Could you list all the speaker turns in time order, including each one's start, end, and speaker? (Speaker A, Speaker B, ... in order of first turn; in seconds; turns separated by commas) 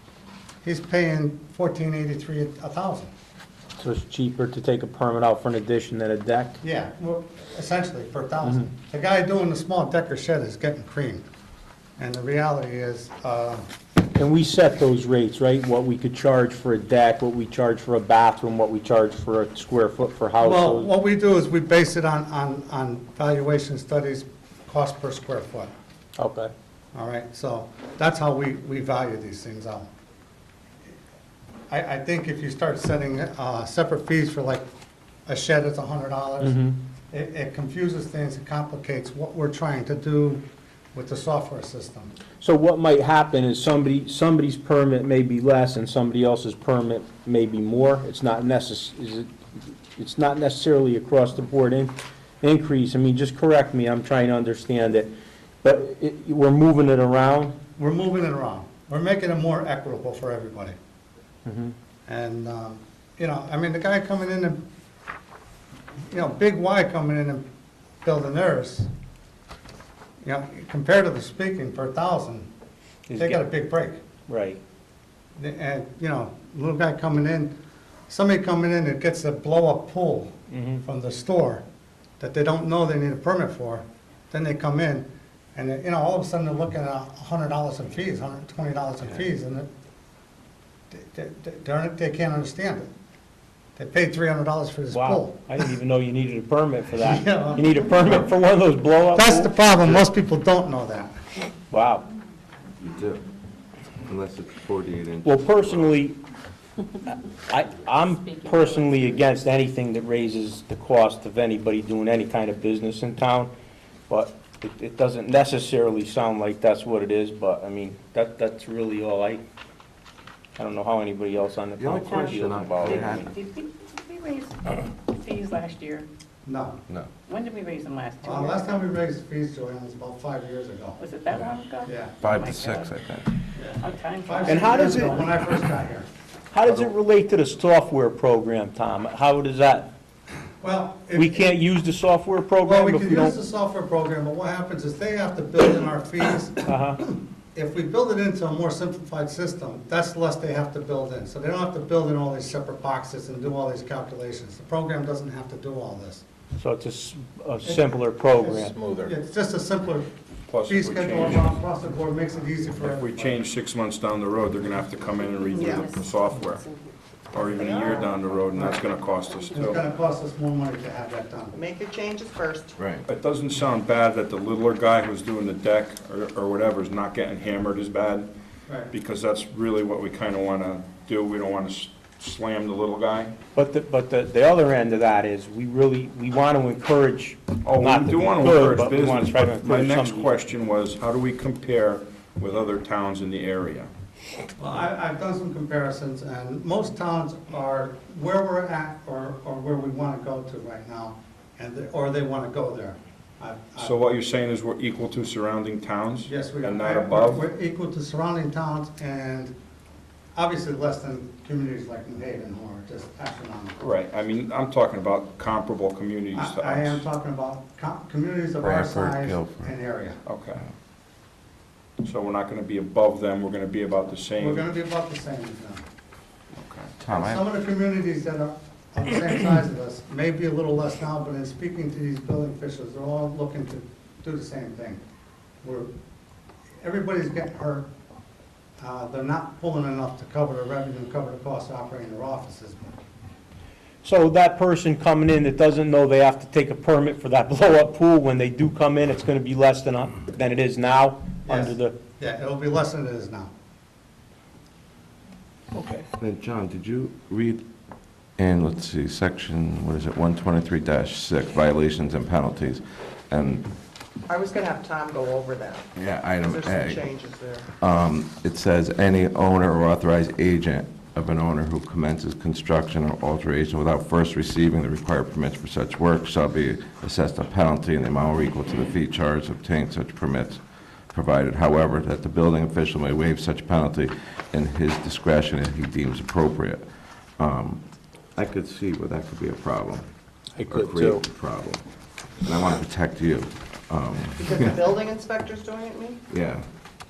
Speaker A: 0.6-3.1, Speaker B: 3.8-6.6, Speaker A: 6.6-11.2, Speaker A: 12.0-13.7, Speaker B: 14.1-20.9, Speaker A: 20.4-25.7, Speaker B: 26.2-26.5, Speaker A: 26.9-29.9, Speaker A: 31.7-34.7, Speaker A: 35.3-42.1, Speaker B: 36.4-36.8, Speaker B: 42.4-57.6, Speaker A: 57.8-60.8, Speaker B: 61.4-61.7, Speaker A: 62.1-64.6, Speaker A: 66.1-67.4, Speaker A: 68.0-68.9, Speaker A: 70.2-72.5, Speaker B: 73.1-73.5, Speaker A: 73.2-74.0, Speaker B: 74.3-74.6, Speaker A: 75.4-77.5, Speaker A: 78.1-80.3, Speaker B: 80.5-80.8, Speaker A: 80.8-81.6, Speaker A: 82.2-89.7, Speaker A: 90.9-92.9, Speaker A: 93.8-95.7, Speaker B: 94.9-99.5, Speaker A: 97.0-98.3, Speaker A: 99.1-101.2, Speaker B: 101.7-102.0, Speaker C: 102.8-103.2, Speaker C: 104.0-106.0, Speaker B: 105.2-106.2, Speaker B: 107.1-113.5, Speaker B: 114.1-119.4, Speaker B: 120.5-123.4, Speaker C: 121.8-123.4, Speaker D: 122.8-124.4, Speaker D: 125.2-126.0, Speaker A: 126.5-126.8, Speaker D: 127.3-128.6, Speaker A: 128.2-131.0, Speaker D: 131.0-132.9, Speaker A: 131.8-132.1, Speaker C: 132.2-133.3, Speaker A: 133.5-136.1, Speaker D: 133.8-135.0, Speaker B: 134.4-135.3, Speaker B: 136.5-139.9, Speaker A: 136.6-136.9, Speaker A: 140.6-141.5, Speaker B: 141.1-143.4, Speaker A: 142.6-156.2, Speaker B: 146.7-147.0, Speaker B: 156.6-158.8, Speaker A: 157.6-160.1, Speaker E: 160.5-161.6, Speaker A: 160.7-163.4, Speaker E: 162.7-166.6, Speaker F: 165.5-165.9, Speaker E: 167.3-169.8, Speaker F: 167.5-168.3, Speaker A: 168.5-168.8, Speaker A: 169.5-171.6, Speaker F: 171.5-172.8, Speaker C: 172.8-173.0, Speaker E: 173.1-178.3, Speaker E: 178.9-183.3, Speaker B: 183.5-190.3, Speaker E: 187.6-193.9, Speaker A: 194.6-204.0, Speaker E: 203.8-207.4, Speaker A: 206.3-209.5, Speaker A: 210.3-213.8, Speaker E: 213.8-217.1, Speaker A: 216.3-220.2, Speaker C: 218.6-219.7, Speaker E: 220.2-220.6, Speaker E: 222.0-224.7, Speaker A: 224.4-225.8, Speaker E: 226.5-226.9, Speaker C: 227.0-227.4, Speaker A: 227.1-235.0, Speaker A: 235.6-235.9, Speaker A: 236.8-237.9, Speaker A: 238.8-243.0, Speaker B: 244.0-251.9, Speaker A: 251.4-253.5, Speaker B: 255.7-256.1, Speaker C: 256.2-257.6, Speaker C: 258.4-263.7, Speaker F: 264.3-265.9, Speaker C: 265.9-267.1, Speaker F: 266.4-267.7, Speaker C: 267.8-286.8, Speaker C: 287.4-287.8, Speaker C: 288.4-290.1, Speaker B: 290.6-291.2, Speaker C: 290.7-291.8, Speaker C: 292.4-294.8, Speaker F: 294.4-296.2, Speaker C: 296.3-296.6